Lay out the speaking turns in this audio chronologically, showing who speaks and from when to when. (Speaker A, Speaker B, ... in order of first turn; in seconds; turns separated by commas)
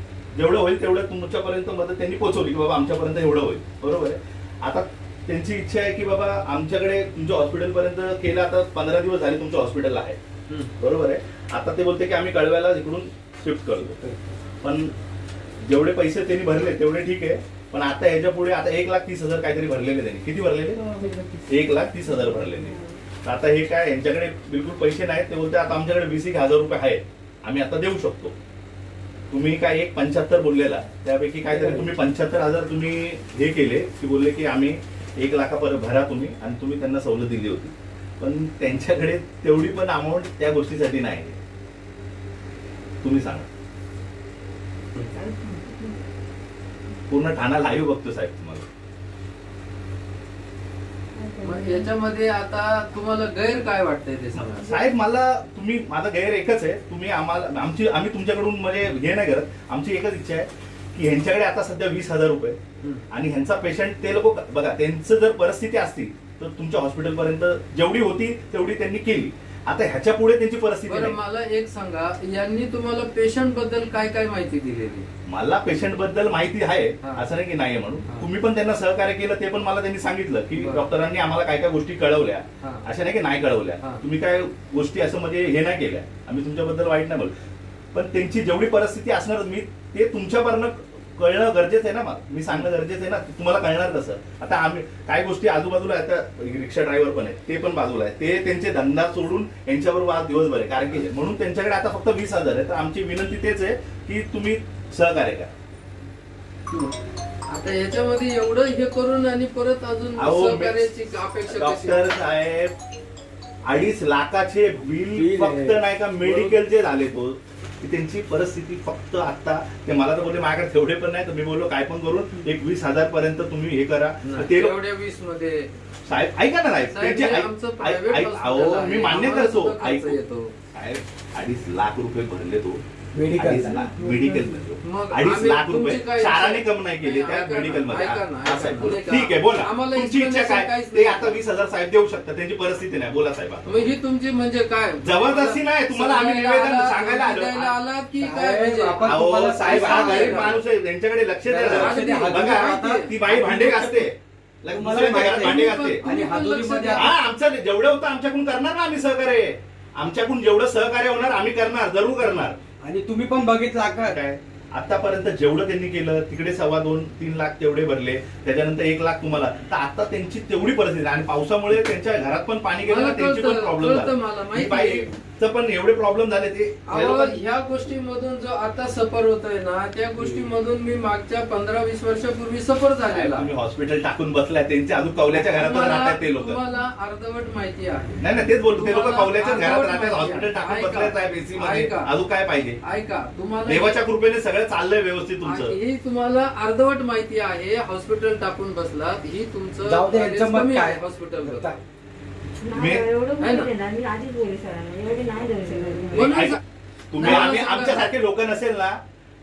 Speaker A: 0.3-10.2, Speaker A: 10.8-14.0, Speaker A: 14.6-14.9, Speaker A: 15.6-20.9, Speaker B: 20.9-21.4, Speaker A: 21.5-28.3, Speaker A: 29.3-41.4, Speaker B: 31.5-31.9, Speaker A: 43.0-43.5, Speaker C: 45.1-45.9, Speaker A: 47.1-48.6, Speaker C: 51.1-51.9, Speaker D: 51.4-54.6, Speaker A: 54.3-62.6, Speaker A: 63.1-71.2, Speaker D: 70.9-75.0, Speaker A: 75.3-87.3, Speaker D: 80.5-80.9, Speaker A: 87.9-105.5, Speaker D: 106.7-107.0, Speaker D: 107.5-112.0, Speaker A: 110.2-110.8, Speaker A: 111.5-112.7, Speaker A: 113.7-124.8, Speaker B: 115.1-116.5, Speaker D: 124.2-125.7, Speaker A: 126.0-130.2, Speaker D: 126.9-130.5, Speaker A: 130.7-132.8, Speaker B: 133.1-134.4, Speaker A: 133.3-143.9, Speaker D: 134.8-141.4, Speaker D: 143.7-150.6, Speaker A: 145.0-147.7, Speaker B: 148.2-150.6, Speaker A: 149.0-156.0, Speaker B: 151.5-154.1, Speaker D: 151.7-153.1, Speaker B: 154.7-157.1, Speaker D: 155.2-157.2, Speaker A: 156.9-162.6, Speaker B: 162.8-164.2, Speaker A: 164.0-177.3, Speaker D: 172.8-175.1, Speaker D: 176.9-183.5, Speaker A: 183.1-186.6, Speaker D: 185.3-192.1, Speaker A: 188.2-192.8, Speaker D: 192.8-194.0, Speaker A: 193.7-195.8, Speaker D: 195.4-201.8, Speaker B: 199.8-201.8, Speaker C: 202.6-206.3, Speaker A: 202.7-203.0, Speaker D: 203.4-203.7, Speaker B: 205.7-206.1, Speaker D: 206.1-206.6, Speaker A: 206.1-206.6, Speaker A: 207.1-209.0, Speaker D: 207.2-208.0